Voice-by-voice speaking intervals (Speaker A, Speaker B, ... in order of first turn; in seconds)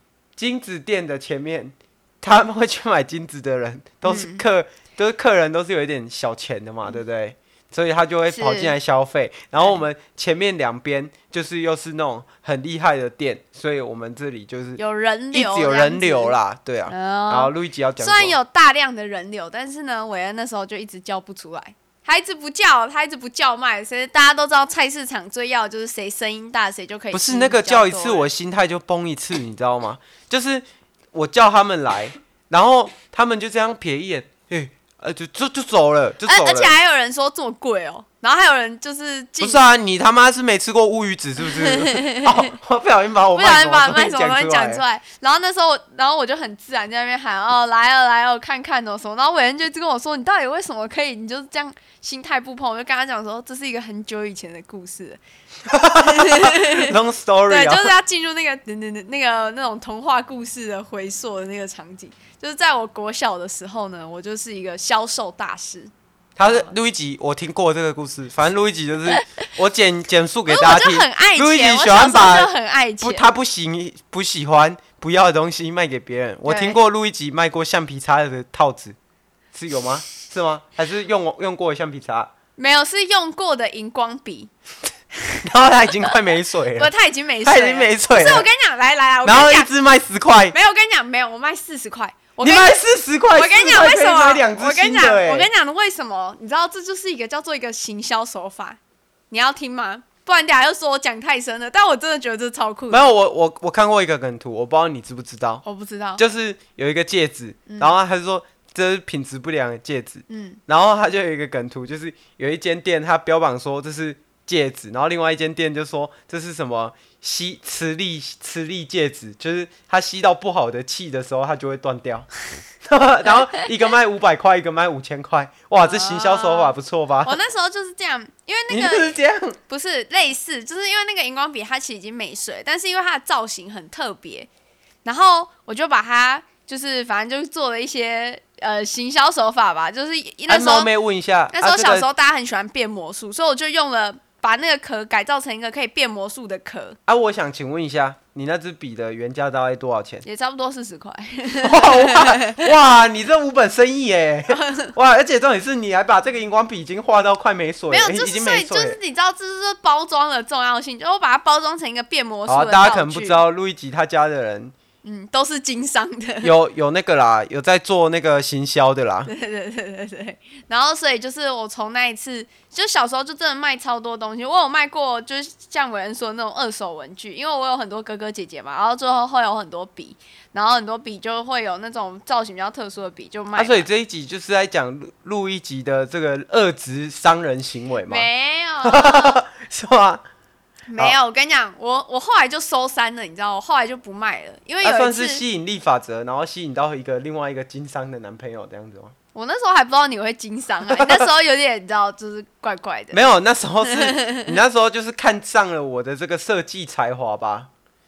Speaker A: 0.4-14.8, 15.3-18.4, 27.1-36.7, 39.4-44.8, 55.7-57.9, 66.4-79.0, 79.5-82.3, 85.4-86.9, 87.4-88.5, 89.2-90.5, 92.4-95.5, 102.9-105.6, 106.2-122.3, 122.8-127.4, 128.7-129.6, 140.5-142.1, 147.1-150.2, 151.6-159.0, 162.5-164.7, 166.4-169.3, 183.6-188.3, 188.8-190.2, 194.8-199.1, 201.0-201.2, 203.1-207.7
Speaker B: 4.0-4.4, 8.3-8.8, 14.8-28.3, 36.2-39.6, 41.4-42.5, 43.3-55.2, 55.7-56.9, 57.5-65.9, 70.5-73.2, 76.4-76.8, 82.6-84.5, 86.8-89.7, 90.5-92.8, 93.3-98.8, 99.3-103.1, 105.6-106.2, 107.7-108.0, 110.3-110.6, 125.8-129.2, 129.7-134.5, 135.0-140.9, 141.5-147.0, 150.2-152.7, 154.5-154.9, 157.9-163.4, 165.0-166.5, 169.3-183.9, 188.0-189.4, 190.9-195.4, 199.3-203.3, 203.8-204.4